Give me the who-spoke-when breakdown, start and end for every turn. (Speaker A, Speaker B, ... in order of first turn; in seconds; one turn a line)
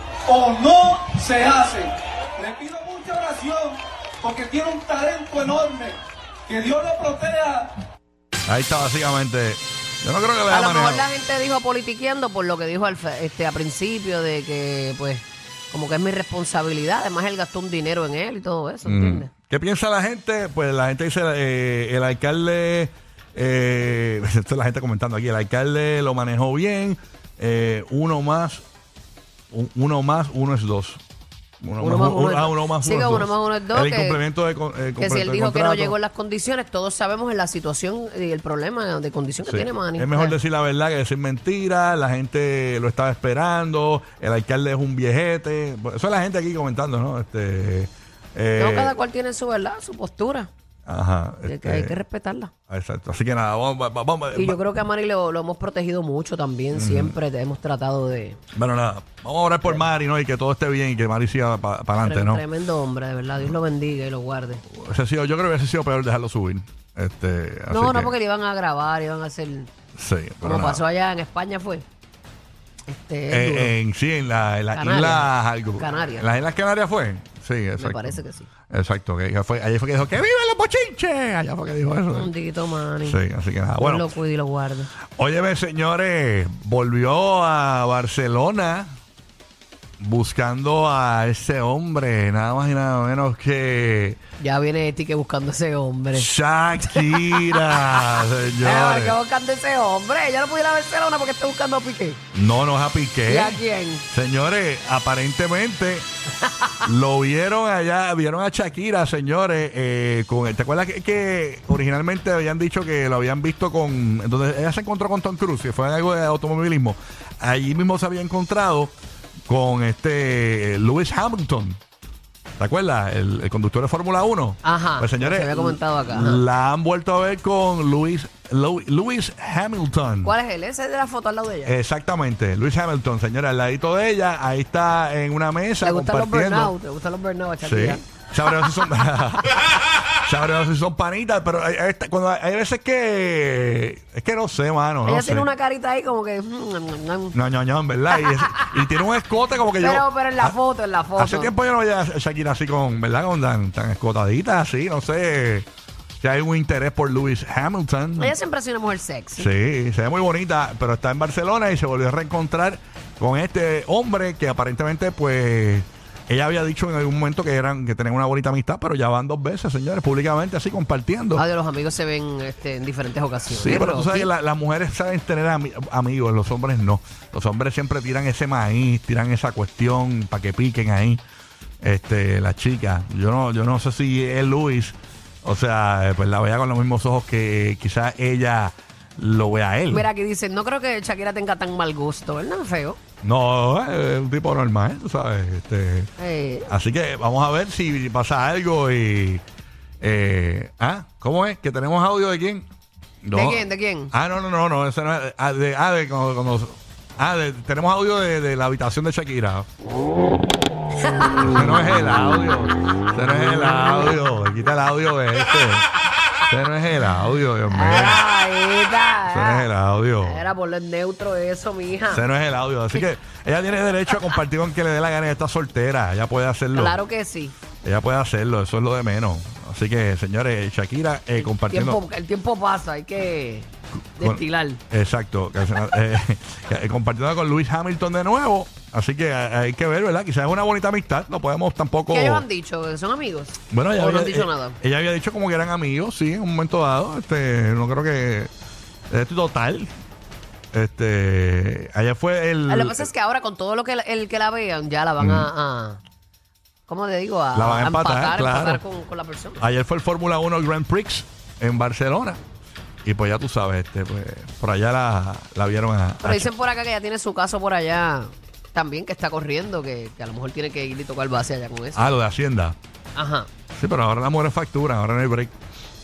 Speaker A: 0.3-7.8
Speaker B: 8.5-11.1
Speaker C: 10.5-19.3
Speaker B: 18.9-28.6
Speaker B: 29.5-31.0
Speaker B: 31.6-36.0
Speaker C: 31.8-34.2
Speaker C: 35.0-40.4
Speaker B: 39.5-48.9
Speaker C: 48.6-50.5
Speaker B: 50.9-52.0
Speaker C: 51.5-52.5
Speaker B: 52.7-54.6
Speaker C: 54.3-58.4
Speaker B: 56.7-57.2
Speaker B: 58.5-62.4
Speaker C: 62.0-64.6
Speaker B: 64.7-68.1
Speaker C: 67.7-69.7
Speaker B: 70.0-70.8
Speaker C: 70.4-71.8
Speaker C: 72.9-73.8
Speaker B: 73.3-82.3
Speaker C: 74.8-76.3
Speaker C: 77.8-78.5
Speaker C: 82.1-83.2
Speaker B: 83.0-84.1
Speaker C: 83.8-84.9
Speaker B: 85.2-88.9
Speaker B: 90.0-94.2
Speaker C: 94.4-102.2
Speaker B: 96.1-99.2
Speaker B: 102.3-106.1
Speaker C: 103.3-104.1
Speaker B: 106.8-118.9
Speaker B: 119.5-121.8
Speaker B: 122.6-130.3
Speaker C: 124.6-126.4
Speaker C: 130.2-131.8
Speaker B: 131.7-136.7
Speaker C: 135.8-138.1
Speaker B: 137.6-145.5
Speaker C: 145.0-147.4
Speaker B: 147.3-150.6
Speaker C: 148.1-148.7
Speaker C: 149.8-151.5
Speaker B: 151.2-155.7
Speaker B: 156.2-158.3
Speaker C: 158.2-159.5
Speaker B: 159.4-171.4
Speaker C: 171.4-174.3
Speaker B: 173.5-181.2
Speaker B: 181.8-190.1
Speaker C: 189.9-193.0
Speaker B: 193.2-196.1
Speaker C: 196.2-196.7
Speaker B: 196.7-199.4
Speaker B: 200.0-202.7
Speaker B: 203.2-209.7
Speaker C: 203.3-204.1
Speaker C: 211.0-211.7
Speaker B: 211.3-215.9
Speaker B: 216.5-218.2
Speaker C: 217.7-219.7
Speaker B: 219.2-220.5
Speaker C: 220.2-222.2
Speaker B: 222.1-227.0
Speaker C: 226.7-227.6
Speaker B: 227.8-232.0
Speaker C: 231.4-234.8
Speaker B: 234.2-242.4
Speaker C: 242.1-244.8
Speaker B: 243.7-248.5
Speaker B: 249.1-249.9
Speaker B: 250.7-253.1
Speaker C: 252.7-256.0
Speaker B: 255.2-255.5
Speaker C: 256.9-259.6
Speaker B: 257.5-258.8
Speaker B: 259.6-262.4
Speaker B: 263.0-266.5
Speaker C: 266.2-272.0
Speaker B: 271.9-272.8
Speaker C: 273.2-273.5
Speaker B: 273.7-275.5